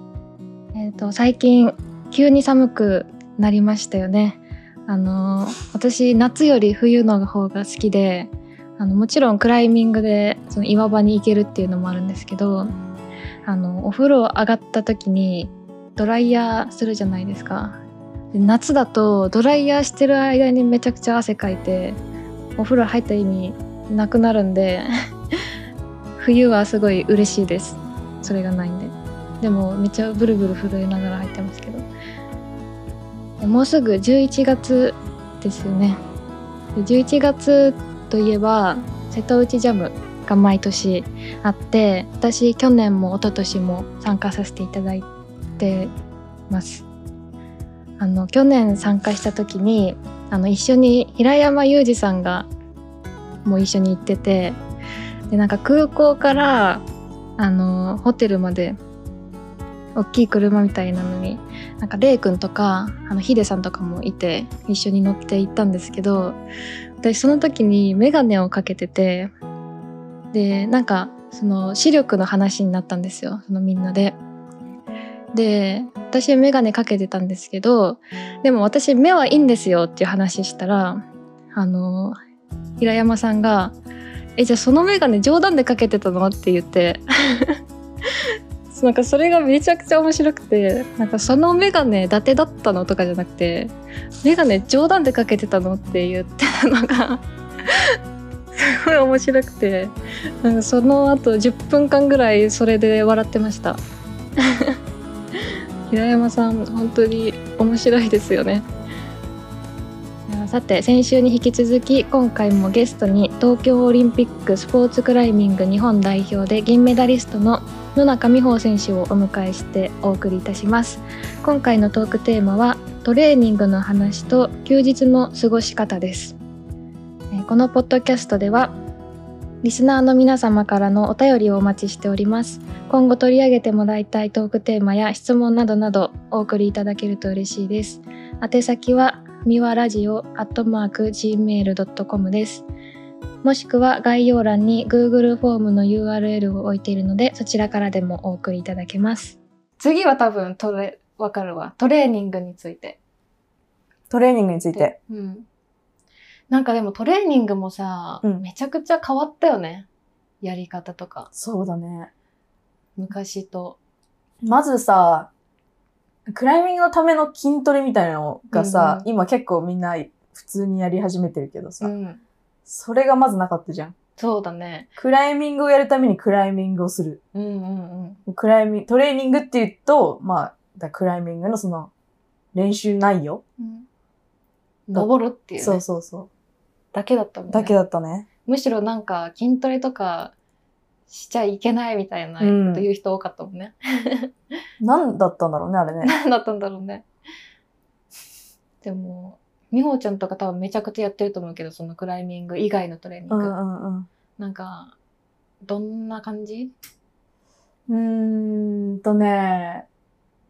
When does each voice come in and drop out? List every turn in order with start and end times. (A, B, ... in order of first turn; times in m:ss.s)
0:00.7-0:12.7 A
0:13.4-0:17.8 A
0:18.3-0:22.0 A
0:22.6-0:24.8 A
0:26.2-0:31.8 A
0:33.4-0:36.0 A
0:36.8-0:45.9 A
0:46.5-0:46.8 A
0:48.0-0:52.5 A
0:53.4-0:54.6 A
0:55.3-0:56.8 A
0:57.4-0:58.8 A
1:00.0-1:06.4 A
1:07.0-1:09.3 A
1:10.3-1:14.2 A
1:15.3-1:21.0 A
1:21.5-1:22.2 A
1:22.8-1:23.8 A
1:24.4-1:27.6 A
1:28.7-1:33.7 A
1:34.2-1:37.8 A
1:38.5-1:43.8 A
1:45.9-1:48.6 A
1:50.3-2:06.4 A
2:07.3-2:08.7 A
2:09.6-2:22.7 A
2:23.4-2:33.0 A
2:34.1-2:34.9 B
2:34.7-2:35.5 A
2:36.5-2:39.9 A
2:40.4-2:41.3 A
2:41.3-2:42.1 B
2:43.0-2:43.8 A
2:44.4-2:45.3 B
2:46.3-2:51.9 B
2:48.5-2:49.1 A
2:51.8-2:52.2 A
2:52.7-2:53.9 B
2:54.2-2:54.9 A
2:55.0-2:57.2 B
2:57.3-2:58.2 A
2:58.3-3:01.9 B
3:02.5-3:03.4 B
3:03.6-3:03.9 A
3:04.9-3:05.8 A
3:04.9-3:06.3 B
3:06.9-3:07.7 A
3:07.5-3:08.3 B
3:08.4-3:10.3 A
3:11.1-3:14.3 A
3:12.4-3:12.8 B
3:14.8-3:16.1 B
3:16.0-3:17.0 A
3:18.8-3:23.5 A
3:23.3-3:24.1 B
3:24.4-3:25.0 A
3:25.6-3:26.7 A
3:27.9-3:29.8 B